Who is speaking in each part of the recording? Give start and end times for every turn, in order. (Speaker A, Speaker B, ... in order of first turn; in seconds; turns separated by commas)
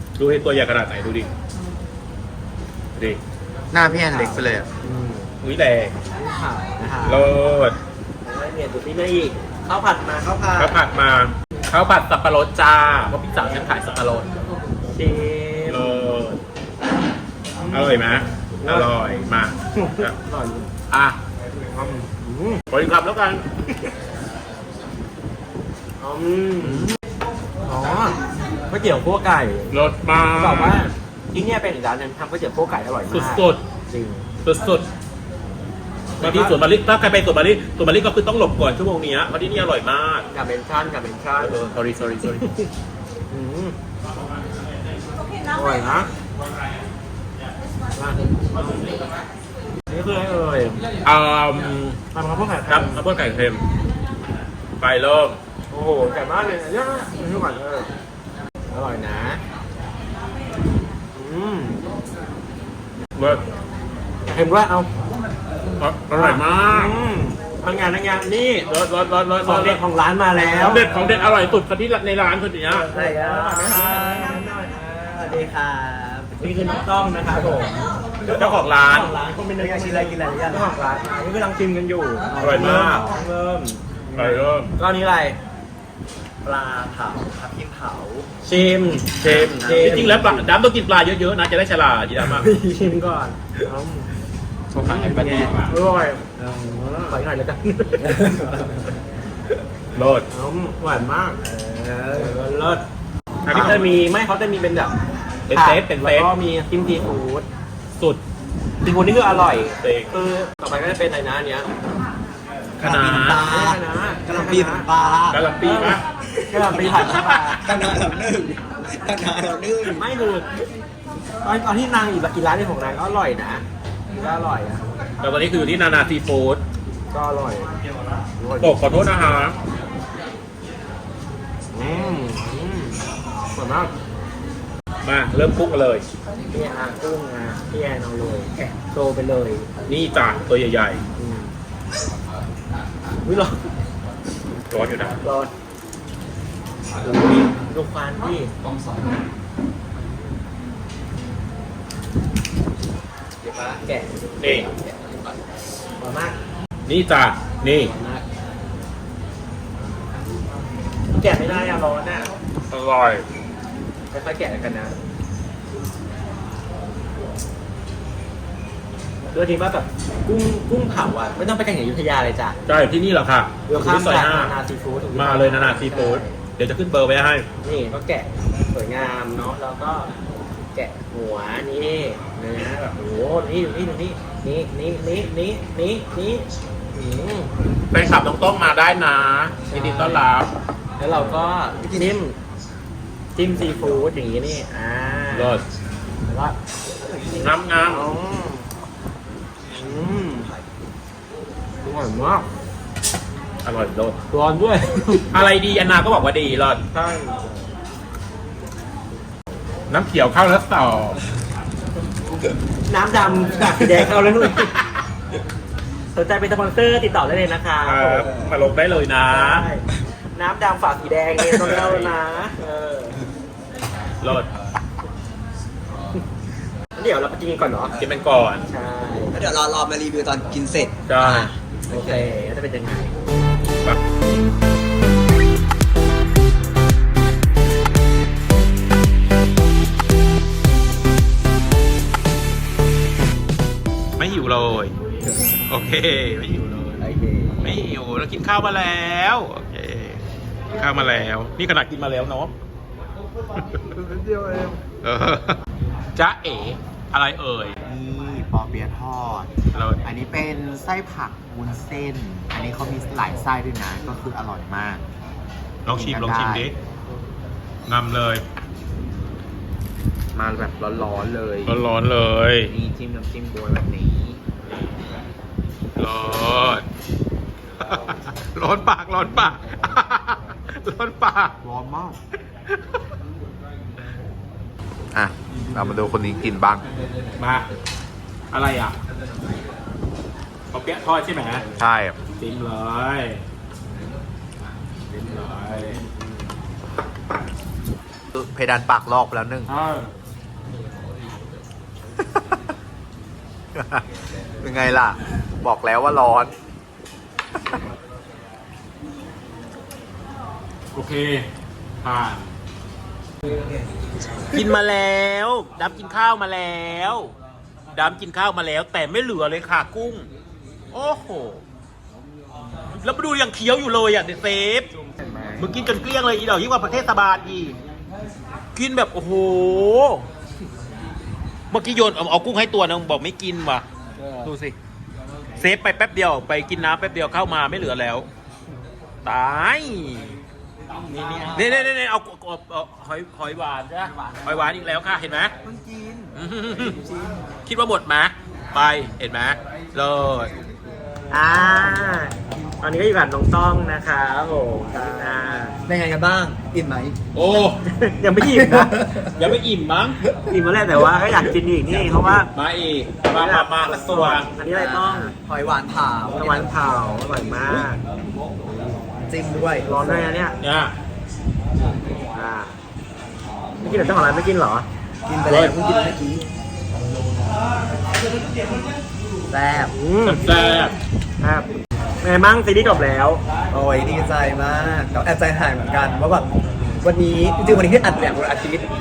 Speaker A: 0.2-1.3, Speaker B: 3.7-4.7, Speaker C: 3.9-5.3, Speaker A: 5.4-5.9, Speaker C: 6.2-7.3, Speaker A: 7.0-7.8, Speaker C: 8.2-10.8, Speaker A: 10.6-14.3, Speaker C: 14.9-16.0, Speaker A: 15.7-16.4, Speaker C: 17.6-18.0, Speaker A: 17.7-20.1, Speaker C: 18.6-18.9, Speaker C: 19.8-20.7, Speaker A: 20.9-21.2, Speaker C: 21.6-22.6, Speaker A: 22.7-23.4, Speaker C: 26.0-26.9, Speaker A: 26.6-26.9, Speaker C: 27.6-28.2, Speaker C: 28.7-29.8, Speaker A: 29.7-30.9, Speaker C: 30.3-34.3, Speaker A: 33.1-33.6, Speaker A: 34.4-34.9, Speaker C: 36.2-36.5, Speaker A: 36.2-40.3, Speaker C: 40.3-41.6, Speaker A: 41.4-42.5, Speaker C: 42.2-42.7, Speaker C: 43.3-43.7, Speaker C: 45.5-46.1, Speaker C: 48.0-49.0, Speaker C: 49.9-50.8, Speaker A: 51.0-52.0, Speaker C: 52.1-53.0, Speaker A: 52.7-53.6, Speaker A: 54.8-55.4, Speaker C: 55.7-57.9, Speaker C: 58.7-59.4, Speaker C: 61.1-61.8, Speaker A: 63.1-63.4, Speaker C: 64.2-64.9, Speaker A: 65.8-66.9, Speaker C: 66.2-68.7, Speaker A: 68.7-69.8, Speaker C: 69.4-71.2, Speaker A: 70.5-72.9, Speaker C: 72.7-75.5, Speaker D: 72.9-74.4, Speaker D: 75.2-76.4, Speaker C: 76.3-85.4, Speaker A: 78.3-79.1, Speaker D: 79.6-80.7, Speaker A: 82.3-83.1, Speaker A: 84.1-84.7, Speaker D: 86.4-88.2, Speaker C: 88.4-90.5, Speaker A: 89.2-92.5, Speaker D: 89.2-90.4, Speaker C: 92.3-94.1, Speaker A: 94.7-95.7, Speaker D: 94.8-95.5, Speaker C: 94.9-96.3, Speaker A: 96.4-97.1, Speaker C: 97.0-98.5, Speaker D: 98.0-98.8, Speaker A: 99.9-100.3, Speaker C: 100.3-102.8, Speaker A: 103.4-103.9, Speaker C: 103.5-104.9, Speaker A: 105.5-106.3, Speaker C: 105.5-107.5, Speaker C: 108.8-111.7, Speaker A: 109.8-110.1, Speaker D: 112.8-115.4, Speaker A: 112.8-113.5, Speaker C: 113.4-114.9, Speaker A: 115.3-116.0, Speaker C: 115.6-117.6, Speaker D: 116.4-120.0, Speaker A: 116.8-117.5, Speaker C: 119.8-120.5, Speaker C: 121.4-123.6, Speaker C: 124.2-124.8, Speaker A: 125.2-126.6, Speaker C: 127.1-127.7, Speaker C: 128.4-128.8, Speaker A: 128.6-129.6, Speaker C: 131.7-133.9, Speaker A: 135.0-136.0, Speaker C: 136.5-139.7, Speaker A: 139.8-141.0, Speaker C: 141.2-141.5, Speaker C: 143.2-143.6, Speaker A: 144.7-145.2, Speaker C: 145.2-145.5, Speaker C: 147.0-148.5, Speaker C: 153.4-155.3, Speaker A: 154.4-154.7, Speaker C: 156.0-156.3, Speaker A: 156.8-157.9, Speaker C: 157.8-158.2, Speaker C: 161.1-162.3, Speaker A: 162.7-163.2, Speaker C: 164.1-164.9, Speaker C: 169.3-172.6, Speaker A: 172.7-174.5, Speaker C: 173.7-176.3, Speaker A: 175.1-177.4, Speaker C: 177.6-180.1, Speaker C: 180.7-187.5, Speaker A: 187.9-190.5, Speaker C: 189.7-190.3, Speaker C: 191.0-192.4, Speaker C: 193.3-195.6, Speaker A: 195.3-195.6, Speaker C: 196.3-196.6, Speaker A: 197.3-198.1, Speaker C: 197.9-198.7, Speaker C: 199.7-200.5, Speaker C: 201.8-202.5, Speaker A: 203.6-204.2, Speaker C: 204.3-205.2, Speaker A: 205.3-206.8, Speaker C: 206.9-207.5, Speaker A: 209.9-211.2, Speaker C: 212.9-214.7, Speaker A: 214.6-215.0, Speaker C: 216.1-218.3, Speaker A: 217.8-219.7, Speaker C: 219.3-219.8, Speaker C: 220.3-223.2, Speaker A: 221.6-222.1, Speaker A: 224.2-224.5, Speaker C: 226.9-227.9, Speaker A: 228.0-228.6, Speaker C: 228.7-229.4, Speaker D: 229.3-232.2, Speaker A: 231.1-231.5, Speaker C: 231.9-233.1, Speaker A: 244.2-244.9, Speaker A: 245.7-247.0, Speaker D: 247.0-247.5, Speaker A: 247.6-250.2, Speaker A: 250.7-252.5, Speaker B: 254.2-254.8, Speaker A: 255.0-255.6, Speaker A: 256.1-257.7, Speaker B: 257.8-265.1, Speaker A: 259.7-260.0, Speaker A: 265.8-266.7, Speaker B: 265.9-266.7, Speaker A: 267.9-268.4, Speaker B: 270.3-271.8, Speaker A: 271.6-272.7, Speaker B: 272.7-274.4, Speaker A: 275.9-276.8, Speaker A: 277.8-281.5, Speaker B: 281.6-282.2, Speaker B: 285.1-286.8, Speaker A: 287.4-287.7, Speaker A: 288.5-288.9, Speaker A: 290.7-291.7, Speaker B: 291.8-292.1, Speaker A: 292.3-293.4, Speaker A: 295.1-296.0, Speaker B: 298.3-299.7, Speaker A: 299.7-300.1, Speaker B: 303.8-304.0, Speaker B: 304.6-306.5, Speaker A: 310.9-311.4, Speaker A: 312.0-312.5, Speaker A: 314.5-317.3, Speaker A: 317.9-320.3, Speaker A: 320.9-321.6, Speaker A: 322.9-324.9, Speaker A: 325.6-327.8, Speaker A: 328.7-330.3, Speaker A: 331.7-333.8, Speaker A: 334.4-334.7, Speaker A: 335.6-338.3, Speaker A: 339.2-340.4, Speaker C: 341.1-341.6, Speaker A: 341.5-345.5, Speaker D: 345.6-346.3, Speaker A: 346.3-347.0, Speaker A: 347.6-350.5, Speaker C: 351.3-355.8, Speaker D: 354.9-357.1, Speaker A: 357.3-357.8, Speaker C: 357.9-358.9, Speaker D: 358.4-359.3, Speaker A: 359.3-360.2, Speaker C: 360.4-362.5, Speaker D: 361.9-362.4, Speaker A: 362.5-364.5, Speaker C: 363.3-365.3, Speaker D: 364.7-366.7, Speaker C: 366.3-368.0, Speaker D: 369.3-370.3, Speaker C: 369.9-370.6, Speaker A: 370.6-370.9, Speaker C: 372.1-372.8, Speaker C: 373.8-374.9, Speaker D: 375.2-376.5, Speaker A: 375.4-375.7, Speaker D: 379.5-379.9, Speaker C: 379.9-380.4, Speaker A: 380.2-380.9, Speaker C: 381.4-381.7, Speaker C: 382.2-383.4, Speaker D: 383.7-386.5, Speaker D: 387.0-388.9